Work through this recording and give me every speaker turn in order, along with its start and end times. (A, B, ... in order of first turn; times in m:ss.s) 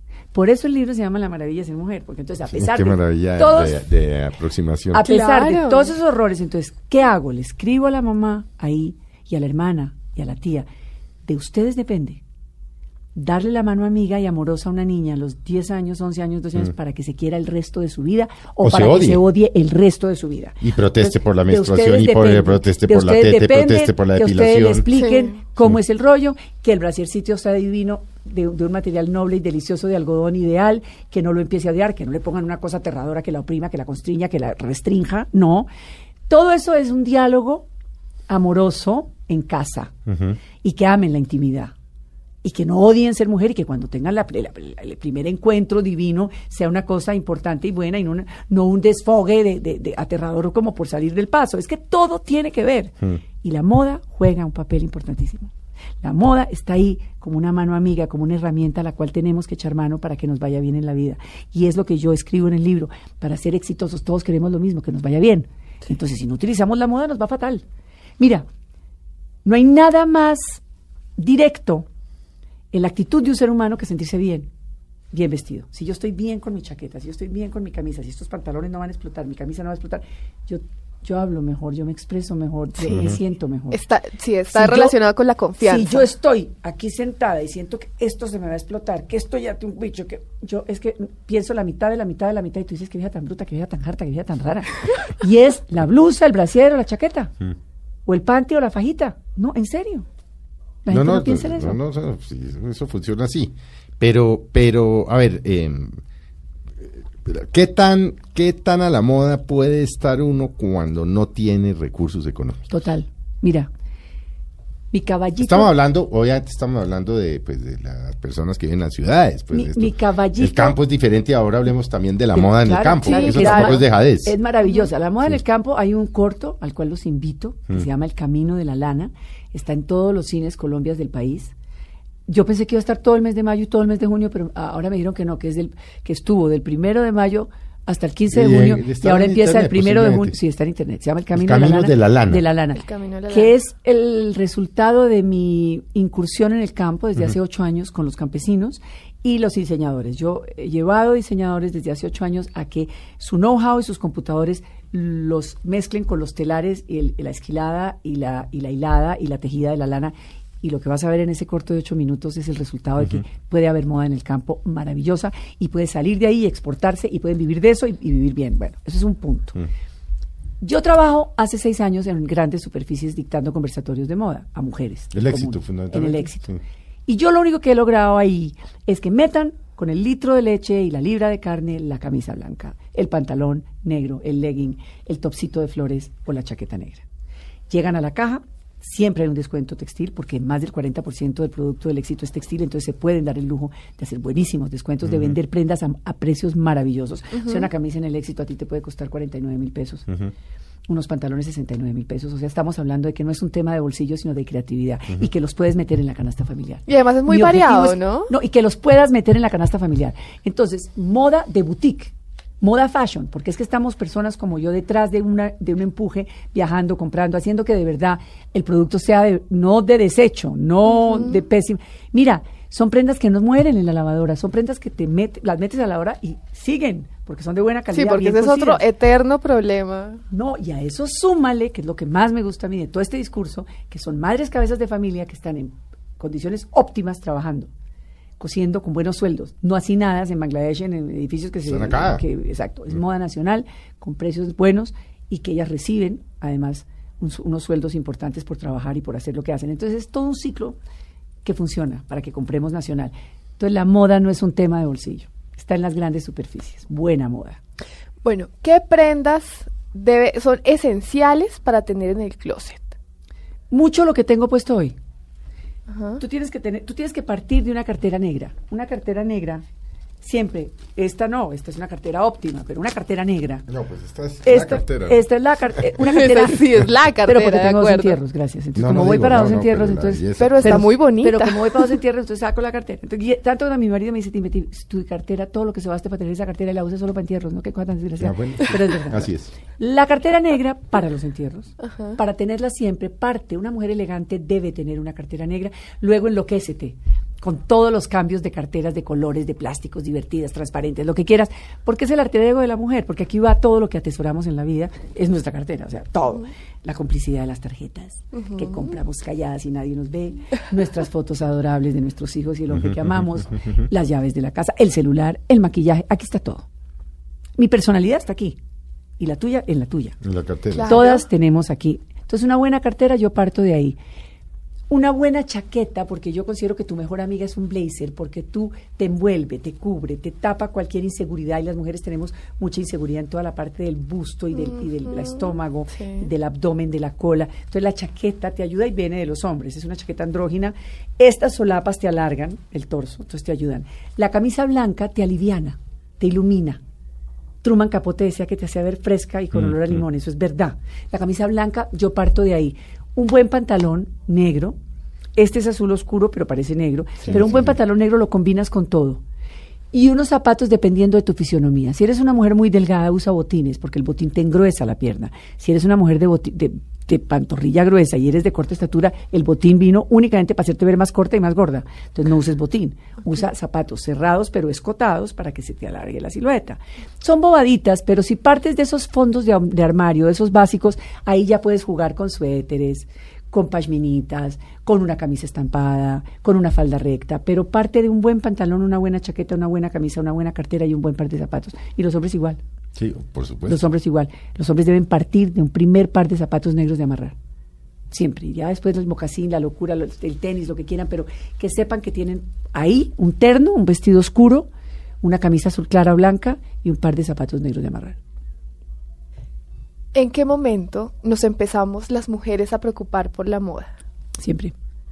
0:00.3-0:03.8 A
0:02.5-0:05.0 B
0:04.9-0:10.7 A
0:05.0-0:05.9 C
0:11.3-0:12.2 A
0:13.1-0:35.7 A
0:18.6-0:19.2 B
0:20.6-0:24.9 B
0:24.9-0:25.3 C
0:36.3-0:37.6 A
0:38.3-0:39.9 A
0:40.1-0:40.4 B
0:40.6-0:41.7 A
0:42.4-1:07.6 A
1:08.2-1:08.5 A
1:09.4-1:10.6 A
1:11.2-1:11.9 A
1:12.7-1:14.5 A
1:15.1-1:23.8 A
1:22.9-1:23.2 B
1:23.7-1:26.1 C
1:24.5-1:24.9 A
1:25.6-1:37.3 A
1:38.0-1:40.1 A
1:40.8-1:41.8 A
1:40.9-1:46.0 B
1:46.8-1:52.7 B
1:52.7-1:53.7 A
1:54.9-1:55.7 A
1:55.4-2:04.4 B
1:59.5-2:00.8 A
2:02.3-2:11.5 A
2:03.0-2:03.8 C
2:12.3-2:49.6 A
2:18.3-2:20.4 B
2:21.4-2:22.4 B
2:22.8-2:23.5 C
2:50.6-2:56.5 A
2:55.1-2:56.6 B
2:57.1-3:07.0 A
3:07.7-3:20.1 A
3:15.0-3:15.4 B
3:17.4-3:17.7 C
3:20.1-3:20.3 B
3:20.9-3:48.8 A
3:26.9-3:28.3 C
3:40.9-3:41.4 C
3:47.9-3:50.2 C
3:50.3-3:57.7 A
3:58.4-4:10.8 A
4:01.6-4:02.2 B
4:11.4-4:17.6 A
4:18.2-4:22.9 C
4:23.7-4:25.0 A
4:25.9-4:26.2 C
4:26.2-4:29.6 A
4:30.2-4:33.6 A
4:33.7-4:35.2 B
4:34.4-5:16.7 A
4:36.0-4:38.2 C
4:38.7-4:40.9 B
4:40.4-4:41.9 C
4:48.2-4:49.5 B
4:51.8-4:52.2 C
5:08.3-5:08.9 C
5:12.7-5:13.8 B
5:17.6-5:18.6 A
5:19.2-5:20.2 A
5:20.2-5:21.0 B
5:20.7-5:21.3 C
5:20.8-5:24.0 A
5:24.9-5:46.8 A
5:34.6-5:35.4 C
5:47.6-5:54.8 A
5:49.5-5:50.0 B
5:55.4-5:59.2 A
5:57.2-5:57.7 B
5:59.9-6:32.6 A
6:33.0-6:33.9 B
6:33.7-6:37.4 A
6:38.1-6:44.7 A
6:45.2-6:48.2 A
6:50.1-6:53.9 C
6:54.4-6:54.7 A